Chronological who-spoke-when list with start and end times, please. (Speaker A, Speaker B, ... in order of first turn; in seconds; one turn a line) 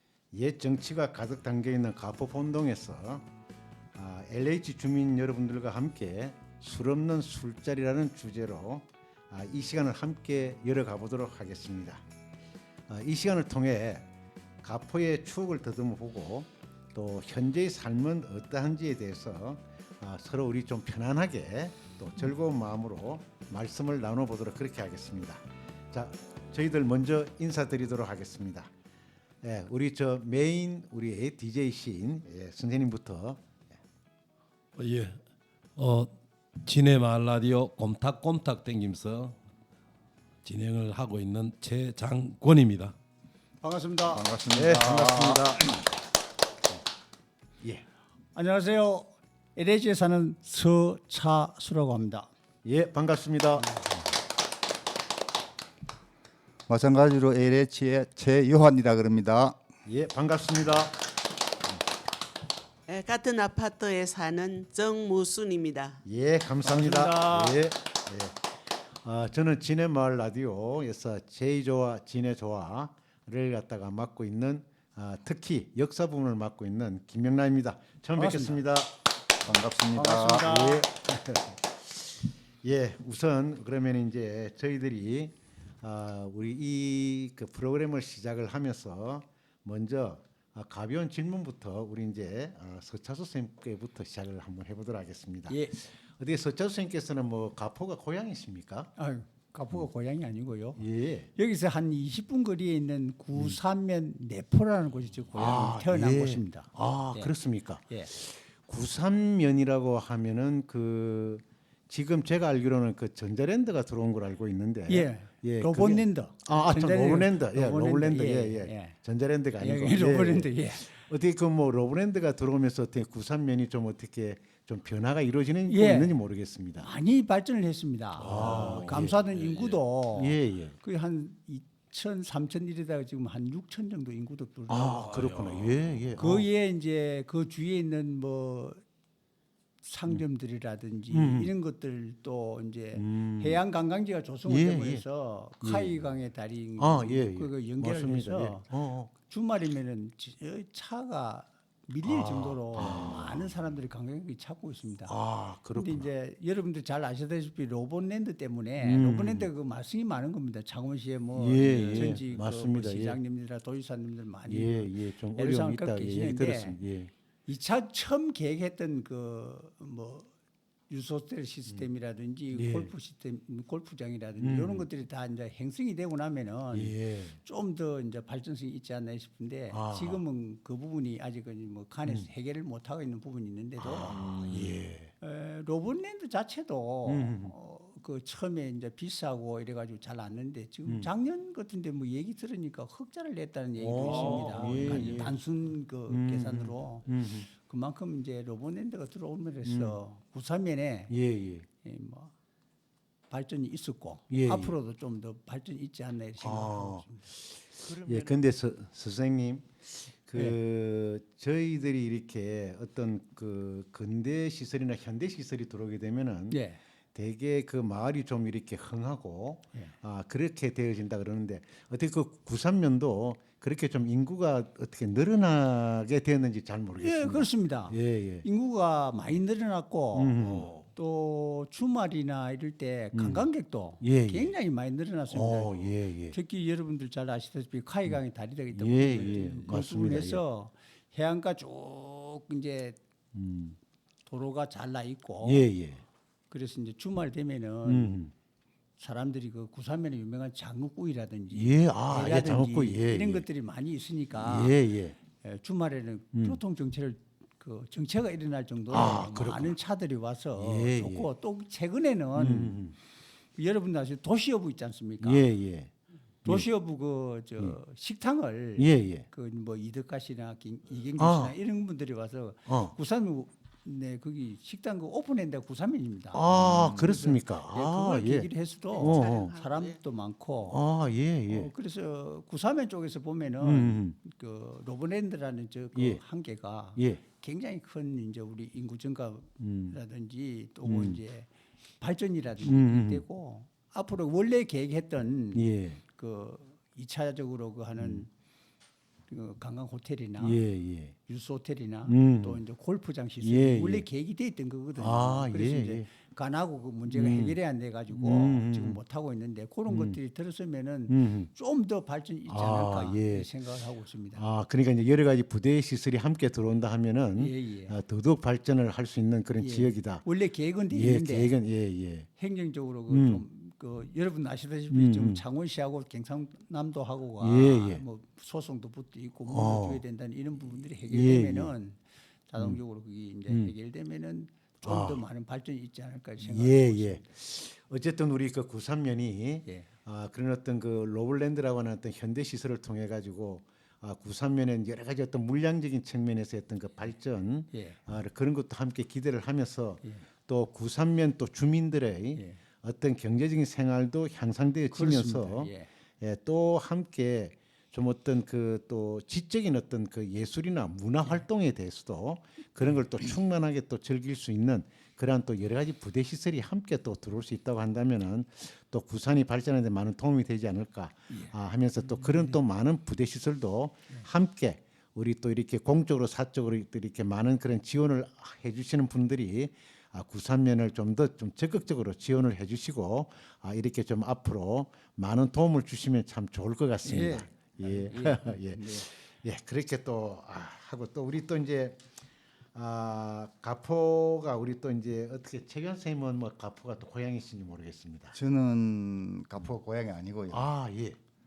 Speaker A: 0.3-3.3
Speaker A: 4.0-12.0
Speaker A: 12.9-14.1
Speaker A: 14.6-28.7
Speaker A: 29.4-33.5
Speaker B: 34.8-35.2
Speaker B: 35.8-39.4
Speaker B: 40.4-43.0
Speaker C: 43.6-45.4
Speaker D: 44.1-45.5
Speaker A: 44.5-45.7
Speaker C: 48.4-52.3
Speaker A: 52.6-53.8
Speaker D: 56.7-59.6
Speaker A: 59.9-61.0
Speaker E: 62.9-66.0
Speaker A: 66.0-68.5
Speaker C: 66.6-67.6
Speaker A: 69.0-78.9
Speaker C: 78.2-78.6
Speaker D: 79.4-80.5
Speaker C: 79.9-80.9
Speaker A: 80.4-98.9
Speaker C: 95.5-95.8
Speaker C: 99.0-100.8
Speaker A: 100.8-101.3
Speaker C: 101.3-107.3
Speaker A: 105.3-126.9
Speaker C: 114.9-119.0
Speaker C: 119.6-120.9
Speaker C: 125.7-126.1
Speaker C: 126.8-135.1
Speaker B: 128.2-129.8
Speaker A: 128.2-129.2
Speaker A: 130.2-130.8
Speaker A: 134.7-136.5
Speaker B: 134.9-136.0
Speaker C: 136.2-138.8
Speaker C: 139.8-155.2
Speaker A: 141.1-141.5
Speaker A: 142.9-143.6
Speaker A: 144.5-145.1
Speaker A: 145.6-146.1
Speaker A: 146.8-149.1
Speaker A: 152.0-153.5
Speaker A: 155.1-156.1
Speaker C: 155.7-166.8
Speaker A: 158.8-159.5
Speaker A: 161.4-163.2
Speaker B: 161.6-162.2
Speaker A: 164.5-167.1
Speaker C: 167.5-170.3
Speaker C: 170.9-184.1
Speaker A: 172.5-172.9
Speaker A: 174.4-174.9
Speaker A: 176.7-177.4
Speaker A: 179.7-180.2
Speaker A: 183.8-185.1
Speaker B: 184.1-184.8
Speaker C: 185.2-201.2
Speaker A: 187.1-187.5
Speaker A: 190.8-191.1
Speaker A: 193.8-195.4
Speaker B: 194.0-195.2
Speaker A: 196.1-197.5
Speaker A: 199.7-200.0
Speaker A: 201.1-201.7
Speaker C: 201.8-202.3
Speaker C: 203.3-207.2
Speaker A: 204.3-204.8
Speaker A: 206.4-216.6
Speaker C: 216.5-216.8
Speaker A: 217.1-228.4
Speaker C: 227.0-230.4
Speaker A: 230.1-230.7
Speaker B: 230.4-230.9
Speaker C: 230.9-243.0
Speaker A: 233.1-233.5
Speaker A: 234.0-234.5
Speaker A: 235.3-236.4
Speaker A: 238.7-240.4
Speaker A: 243.3-243.8
Speaker C: 244.3-245.7
Speaker A: 245.4-246.0
Speaker C: 246.5-248.2
Speaker A: 247.8-248.3
Speaker C: 249.0-254.8
Speaker A: 251.5-253.4
Speaker A: 254.4-255.2
Speaker C: 255.4-262.8
Speaker A: 256.3-256.6
Speaker A: 258.9-259.8
Speaker A: 260.6-261.3
Speaker A: 262.4-263.0
Speaker C: 263.6-265.5
Speaker A: 265.2-265.9
Speaker C: 266.4-280.8
Speaker A: 268.8-269.3
Speaker A: 271.2-271.6
Speaker A: 272.7-272.9
Speaker A: 276.3-279.5
Speaker E: 278.9-280.0
Speaker A: 280.7-281.7
Speaker C: 281.5-291.5
Speaker A: 283.6-284.2
Speaker A: 285.9-286.2
Speaker A: 287.0-287.2
Speaker A: 289.6-290.0
Speaker A: 290.8-291.2
Speaker C: 292.0-298.3
Speaker A: 292.6-293.2
Speaker A: 295.5-296.0
Speaker A: 298.0-298.2
Speaker C: 299.3-300.6
Speaker A: 300.4-301.2
Speaker C: 301.3-314.4
Speaker A: 302.1-302.6
Speaker A: 303.4-304.1
Speaker A: 305.0-306.1
Speaker A: 307.1-307.6
Speaker A: 308.1-309.0
Speaker A: 309.9-310.2
Speaker A: 311.1-311.5
Speaker A: 312.5-313.5
Speaker A: 314.3-320.2
Speaker C: 317.4-318.0
Speaker C: 319.6-321.6
Speaker A: 320.9-322.3
Speaker C: 322.4-337.2
Speaker A: 323.1-323.4
Speaker A: 324.9-325.4
Speaker A: 327.4-328.0
Speaker A: 329.5-330.0
Speaker A: 331.1-331.7
Speaker A: 333.5-333.7
Speaker A: 334.8-335.2
Speaker A: 336.4-392.0
Speaker C: 347.7-348.0
Speaker C: 354.9-355.9
Speaker C: 372.2-372.6
Speaker C: 387.0-389.1
Speaker A: 392.7-398.4
Speaker D: 398.3-400.7
Speaker A: 400.5-401.2